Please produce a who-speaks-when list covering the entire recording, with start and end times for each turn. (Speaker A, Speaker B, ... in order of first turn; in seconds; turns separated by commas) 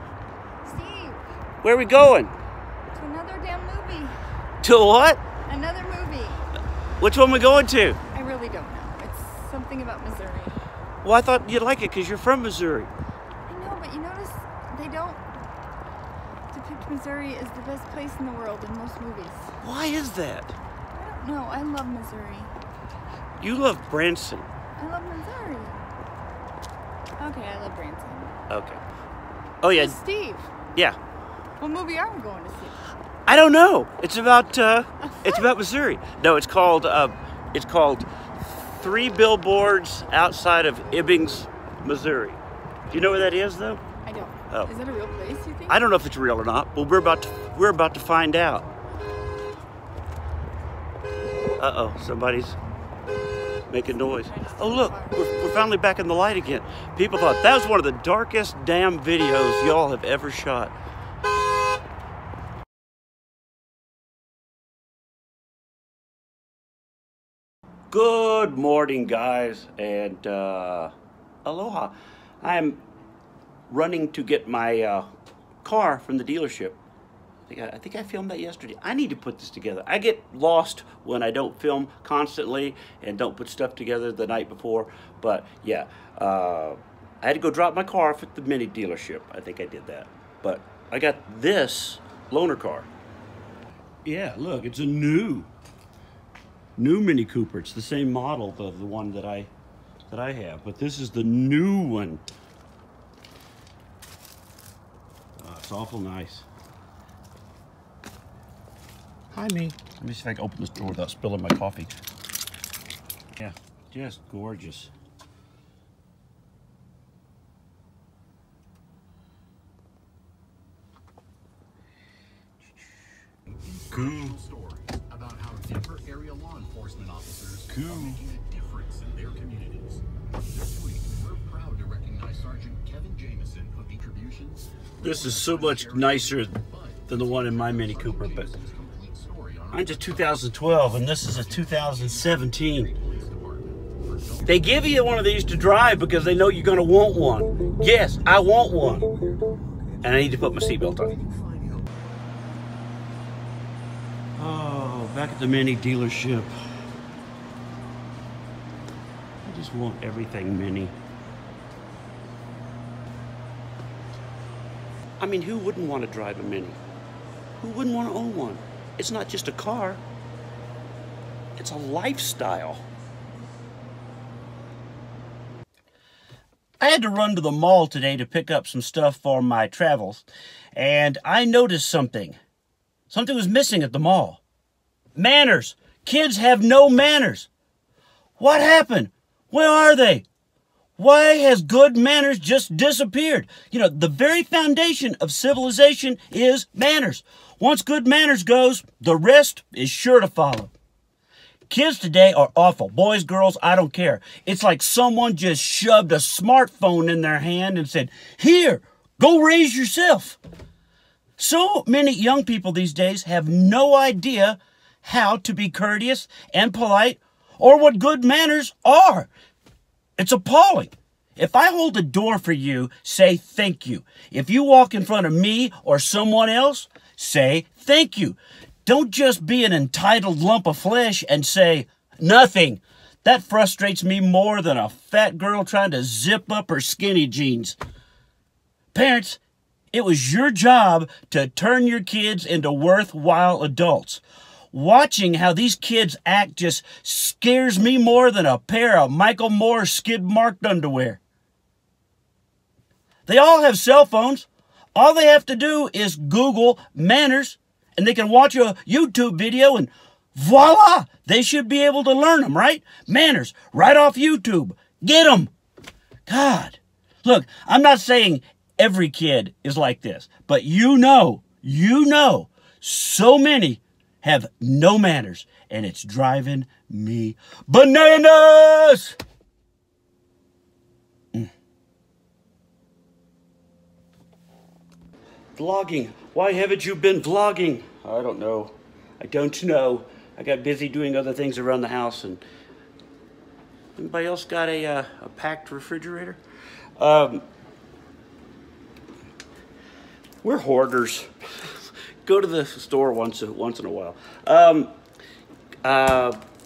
Speaker A: 0.6-1.2, Speaker B: 1.6-2.3, Speaker A: 2.9-4.2, Speaker B: 4.6-5.2, Speaker A: 5.5-6.4, Speaker B: 7.0-8.0, Speaker A: 8.1-10.6, Speaker B: 11.0-12.9, Speaker A: 13.5-15.4, Speaker A: 16.5-19.5, Speaker B: 19.6-20.6, Speaker A: 20.9-22.5, Speaker B: 23.4-24.5, Speaker A: 24.8-25.8, Speaker A: 27.2-28.4, Speaker B: 28.5-28.8, Speaker B: 29.6-30.0, Speaker A: 29.7-30.5, Speaker A: 31.6-32.8, Speaker B: 33.3-42.4, Speaker B: 42.9-43.8, Speaker A: 44.0-45.8, Speaker B: 45.7-48.7, Speaker B: 51.6-52.6, Speaker B: 53.7-60.7, Speaker B: 67.9-70.9, Speaker B: 71.4-72.8, Speaker B: 73.7-75.1, Speaker B: 75.6-76.8, Speaker B: 77.5-92.9, Speaker B: 94.0-95.5, Speaker B: 96.8-99.5, Speaker B: 100.1-102.2, Speaker B: 105.4-106.5, Speaker B: 109.3-111.9, Speaker B: 113.4-114.9, Speaker C: 123.5-140.4, Speaker B: 123.9-124.4, Speaker B: 127.7-128.3, Speaker B: 135.0-138.5, Speaker B: 139.7-142.9, Speaker C: 141.1-144.7, Speaker B: 144.4-149.3, Speaker B: 150.0-151.2, Speaker B: 154.4-156.5, Speaker B: 159.4-160.9, Speaker B: 165.2-166.8, Speaker B: 167.6-170.0, Speaker B: 171.6-172.8, Speaker B: 176.8-182.3, Speaker B: 183.1-184.4, Speaker B: 185.2-187.5, Speaker B: 188.4-190.2, Speaker B: 191.0-200.7, Speaker B: 201.7-210.4, Speaker B: 211.4-219.3, Speaker B: 220.2-237.8, Speaker B: 238.9-239.4, Speaker B: 239.9-251.2, Speaker B: 253.2-265.5, Speaker B: 266.3-279.2, Speaker B: 285.6-292.4, Speaker B: 293.9-296.4, Speaker B: 297.0-297.4, Speaker B: 300.4-304.9, Speaker B: 305.8-306.4